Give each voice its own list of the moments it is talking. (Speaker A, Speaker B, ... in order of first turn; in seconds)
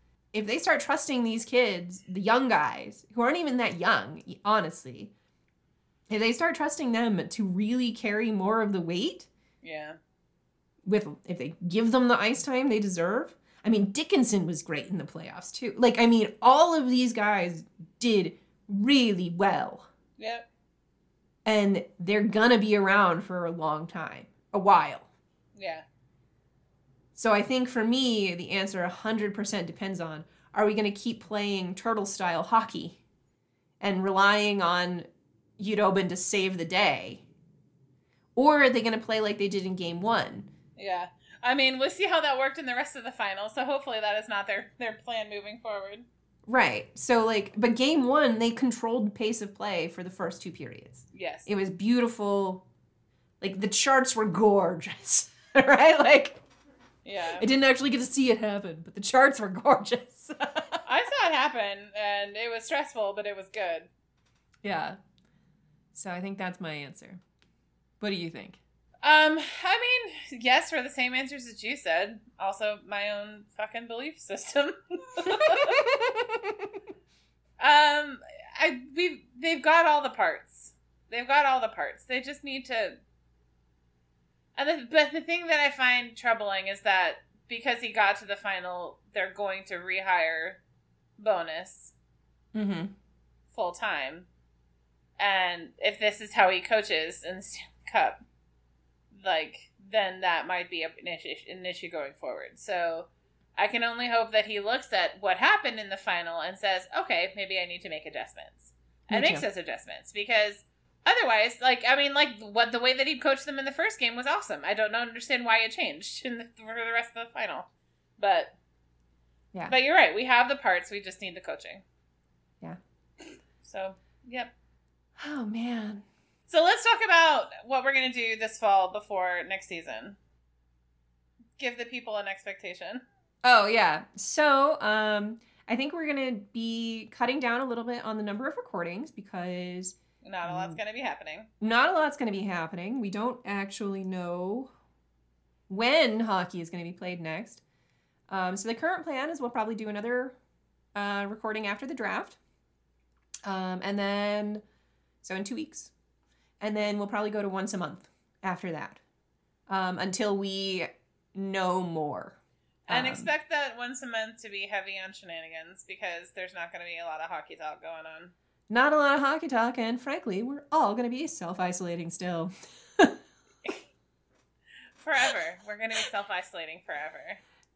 Speaker A: 0.3-5.1, 6.1-9.3, 10.8-19.9, 21.4-25.1, 27.1-33.0, 33.8-35.1, 35.6-37.2, 38.4-40.5, 46.5-52.6, 53.4-56.4, 57.4-60.8, 64.6-65.0, 65.9-67.2, 68.0-68.6, 75.2-76.7, 92.5-92.9, 109.1-109.5, 125.2-126.1, 133.4-140.8, 141.6-144.7, 145.7-147.6, 148.3-150.4, 150.9-152.4, 153.4-154.6, 155.2-155.9, 156.6-159.0, 159.7-162.4, 162.9-163.3, 168.7-173.2
Speaker B: 9.6-10.0, 20.2-20.5, 25.6-25.9, 40.8-46.1, 51.1-51.5, 57.0-57.5, 60.9-63.9, 69.0-75.8, 77.6-83.0, 84.6-90.6, 91.2-92.0, 93.5-94.3, 95.2-98.2, 99.1-117.7, 118.2-118.5, 119.7-121.8, 123.6-124.5, 126.5-130.2, 131.6-133.0, 140.2-141.5, 162.9-168.3, 175.0-177.4